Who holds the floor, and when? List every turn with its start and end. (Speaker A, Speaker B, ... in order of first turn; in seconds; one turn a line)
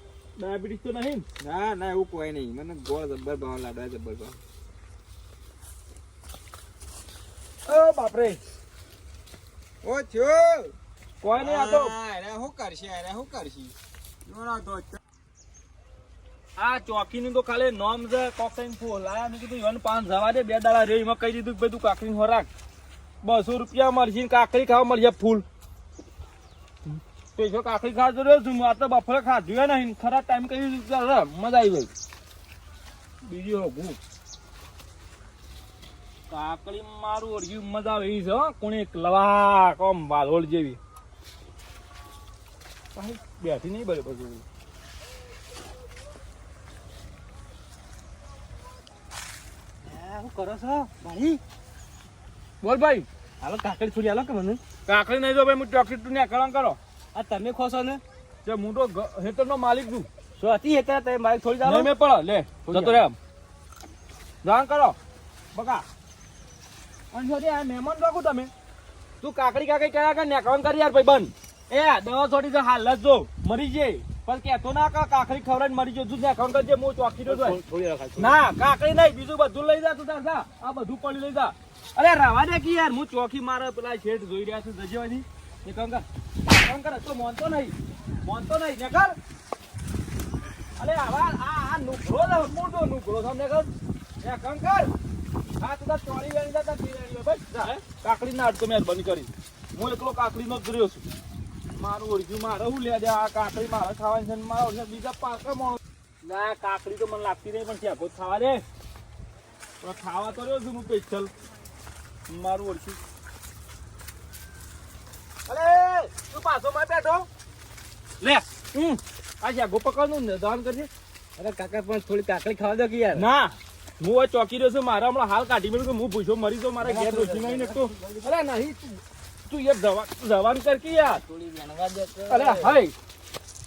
Speaker A: 0.4-1.2
Speaker B: 1.4-4.4
Speaker A: 7.7-8.4
Speaker B: 9.8-10.7
Speaker A: 11.2-11.9
Speaker B: 11.3-13.7
Speaker B: 14.2-15.0
Speaker A: 16.6-22.5
Speaker A: 23.2-25.4
Speaker A: 26.9-31.9
Speaker A: 33.2-34.0
Speaker A: 36.3-40.8
Speaker A: 42.9-44.4
Speaker C: 49.8-51.4
Speaker A: 52.6-53.1
Speaker C: 53.4-54.6
Speaker A: 54.9-56.8
Speaker C: 57.1-58.0
Speaker A: 58.4-60.1
Speaker C: 60.4-61.9
Speaker A: 61.6-63.1
Speaker C: 62.6-63.0
Speaker A: 64.4-65.0
Speaker A: 65.5-65.8
Speaker A: 67.1-68.5
Speaker A: 69.2-77.6
Speaker C: 77.2-78.4
Speaker A: 78.2-89.2
Speaker A: 90.8-93.7
Speaker A: 94.2-94.9
Speaker A: 95.6-101.0
Speaker A: 101.7-108.6
Speaker A: 109.8-111.3
Speaker A: 112.3-113.0
Speaker A: 115.5-117.3
Speaker A: 118.2-120.9
Speaker C: 121.4-123.2
Speaker A: 123.1-131.2
Speaker C: 126.8-128.4
Speaker C: 131.0-132.7
Speaker A: 132.3-132.9